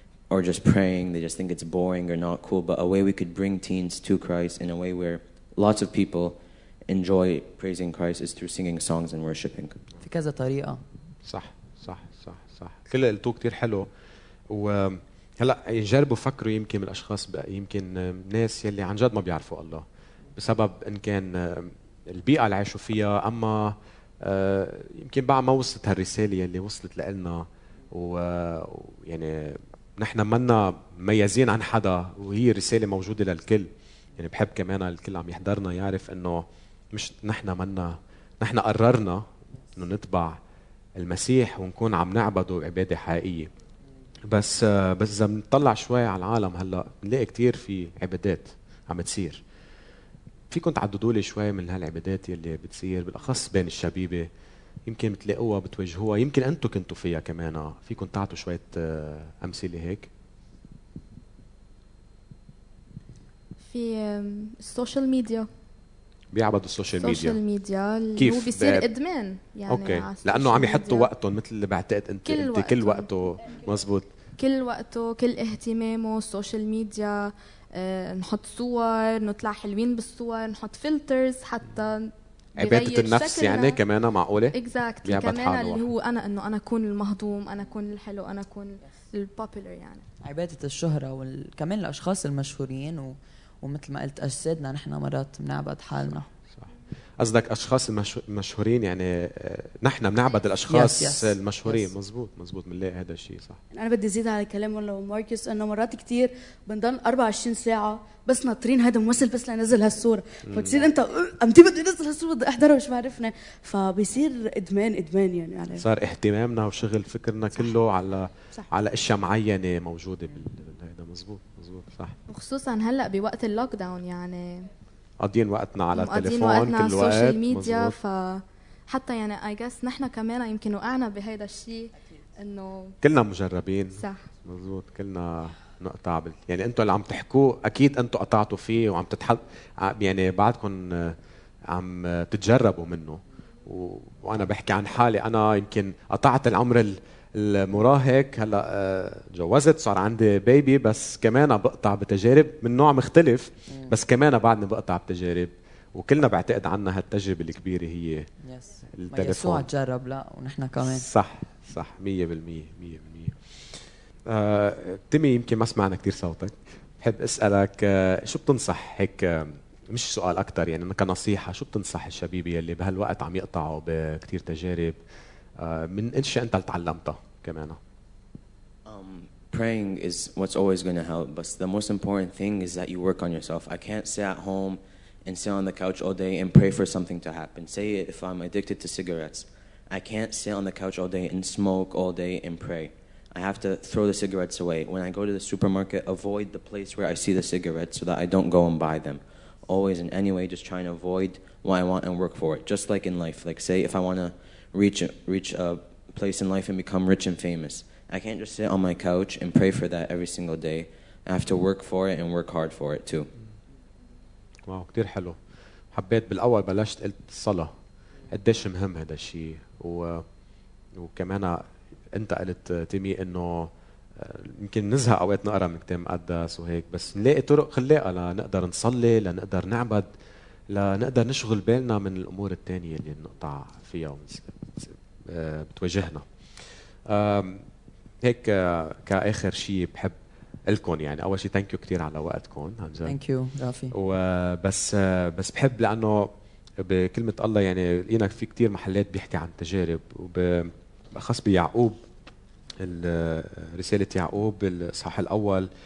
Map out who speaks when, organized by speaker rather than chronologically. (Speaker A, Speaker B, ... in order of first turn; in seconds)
Speaker A: 0.3-9.8, 178.8-213.3
Speaker B: 10.0-10.8, 90.2-96.3, 100.7-101.9, 153.7-153.9, 158.4-161.1, 243.0-243.9
Speaker C: 11.2-13.9, 14.5-19.8, 20.4-40.4, 41.0-43.5, 44.3-49.4, 50.5-54.3, 54.9-60.1, 66.3-67.4, 68.2-68.8, 69.7-74.1, 82.6-85.9, 97.2-103.6, 110.5-110.8, 115.8-122.2, 125.2-128.0, 133.0-141.2, 141.7-158.3, 158.9-159.6, 160.8-175.0, 175.6-177.8, 214.7-215.4, 215.9-217.7, 218.3-220.2, 220.9-230.1, 230.7-236.2, 237.1-237.6, 238.2-240.1, 240.7-243.2, 243.9-252.0, 252.8-255.7
Speaker D: 63.7-65.5, 67.0-71.1, 72.3-73.1, 74.4-83.8, 84.5-90.0, 122.3-124.7, 125.9-132.9, 134.0-134.3
Speaker E: 103.7-115.8